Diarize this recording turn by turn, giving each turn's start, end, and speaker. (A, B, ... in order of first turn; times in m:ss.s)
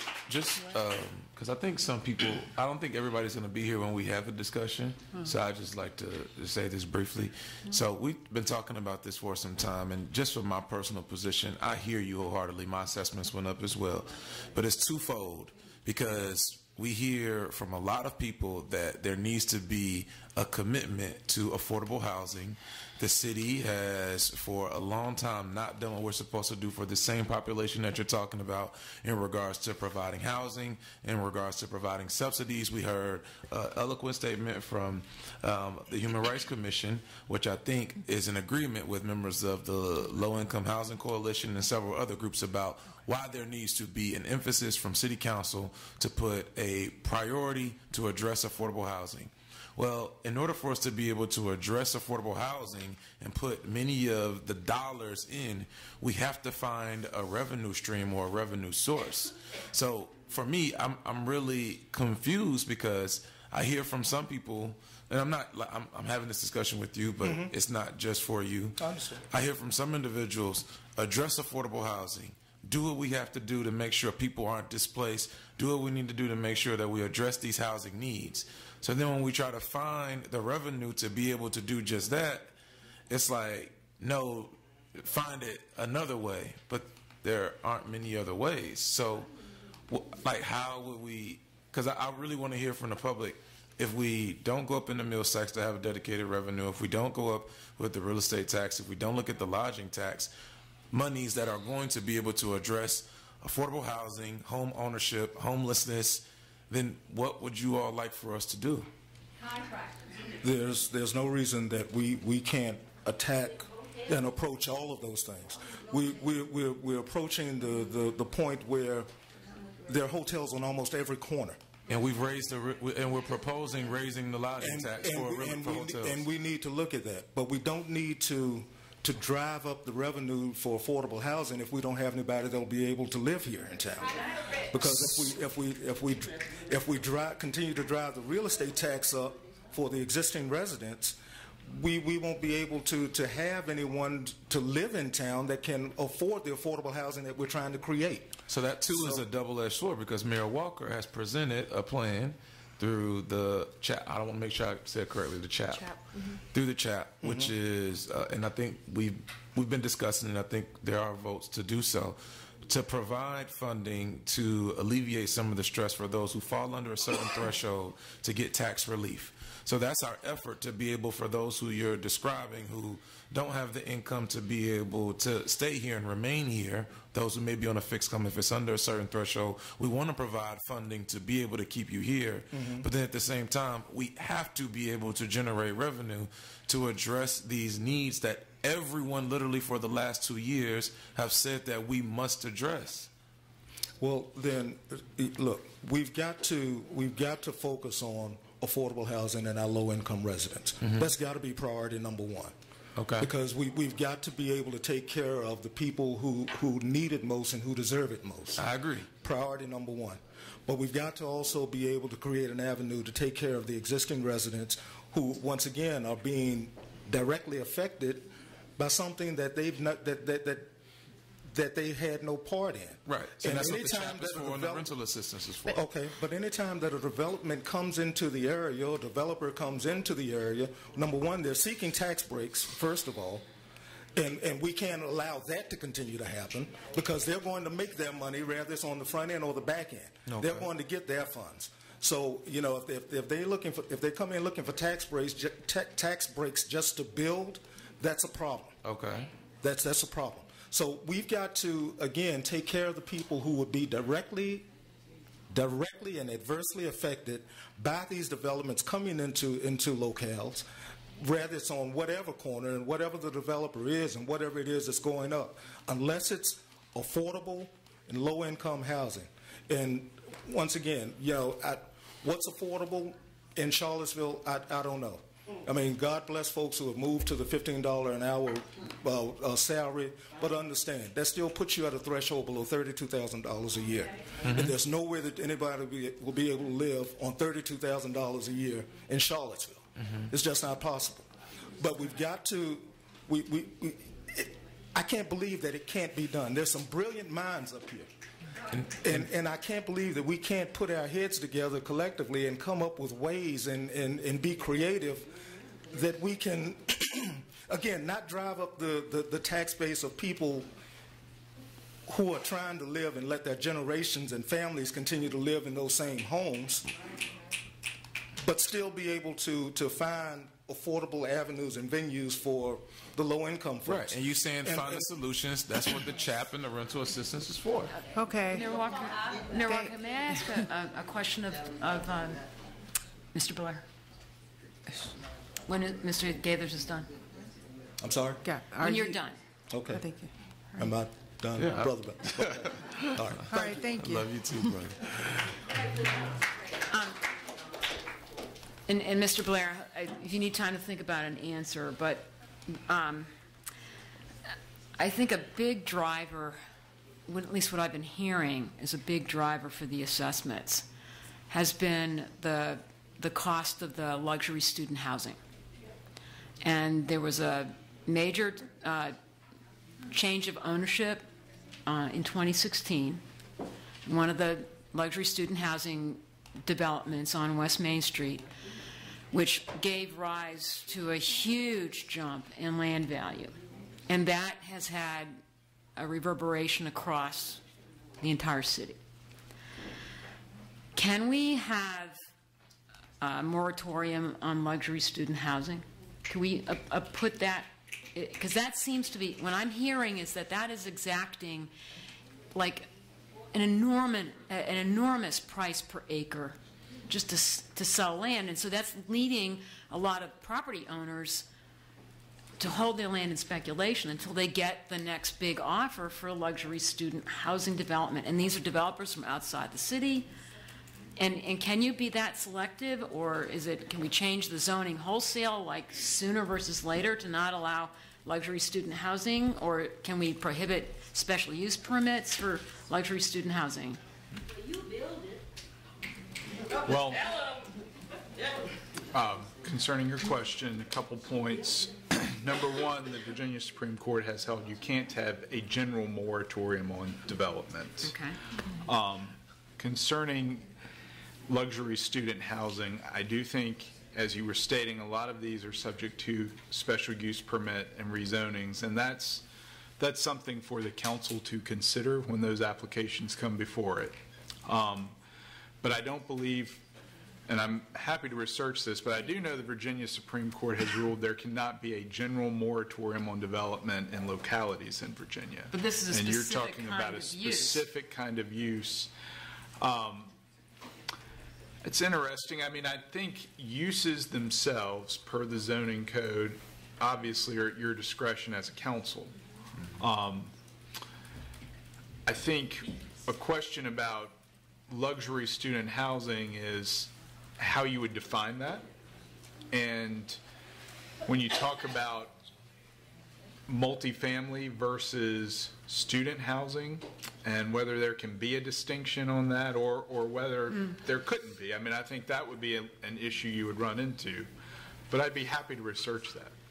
0:00.3-1:22.5 A
1:07.2-1:07.5 B
1:08.8-1:09.2 B
1:23.1-1:29.3 A
1:29.9-1:40.3 A
1:40.9-1:48.9 A
1:50.4-1:59.1 B
1:59.8-2:01.6 B
2:01.9-2:06.2 A
2:04.6-2:14.1 B
2:14.7-2:29.2 B
2:28.5-2:36.0 A
2:36.5-3:13.1 A
2:37.2-2:37.5 B
3:02.5-3:02.8 B
3:14.0-3:22.5 B
3:20.8-3:21.1 A
3:23.0-3:23.3 A
3:23.2-3:40.7 B
3:28.6-3:29.1 A
3:41.5-3:44.9 B
3:43.0-3:45.8 A
3:45.6-3:53.4 B
3:54.1-4:08.7 B
4:00.2-4:00.7 A
4:08.8-4:09.3 A
4:09.6-4:14.6 B
4:15.5-4:20.6 B
4:21.2-4:58.1 B
4:44.4-4:44.7 A
4:50.0-4:50.3 A
4:58.7-4:59.3 A
4:59.0-5:05.3 B
5:05.9-5:10.7 B
5:12.1-5:16.9 B
5:18.4-5:25.0 B
5:23.8-5:27.9 A
5:28.1-5:28.7 C
5:28.5-5:32.4 D
5:29.6-5:30.6 C
5:33.3-5:33.8 D
5:35.7-5:37.1 D
5:38.0-5:38.4 B
5:38.4-5:39.2 C
5:38.8-5:39.4 D
5:39.7-5:40.0 B
5:39.9-5:40.9 C
5:40.8-5:43.4 B
5:41.6-5:45.5 A
5:43.5-5:44.7 C
5:46.9-5:47.2 D
5:48.9-5:53.3 D
5:55.0-5:56.6 D
5:57.3-6:00.9 D
6:01.5-6:05.4 D
6:06.6-6:09.2 D
6:10.1-6:11.3 D
6:11.8-6:13.2 D
6:14.0-6:18.4 D
6:19.3-6:23.6 D
6:24.1-6:25.4 D
6:26.0-6:27.6 D
6:28.2-6:29.0 D
6:30.9-6:32.2 D
6:33.2-6:41.7 D
6:42.5-6:42.9 D
6:43.5-6:46.6 D
6:47.1-6:51.5 D
6:52.6-7:00.2 D
7:01.2-7:14.0 D
7:16.8-7:17.2 E
7:19.1-7:28.2 E
7:28.0-7:28.4 D
7:28.8-7:30.7 E
7:31.5-7:39.4 E
7:40.0-7:45.2 E
7:45.8-7:46.8 E
7:47.5-7:59.1 E
7:55.7-7:57.9 D
7:59.8-8:00.3 E
8:01.8-8:09.3 E
8:10.0-8:10.5 E
8:12.3-8:14.4 E
8:14.9-8:18.8 E
8:19.7-8:20.4 E
8:21.2-8:22.4 E
8:23.7-8:34.5 E
8:35.1-8:36.5 E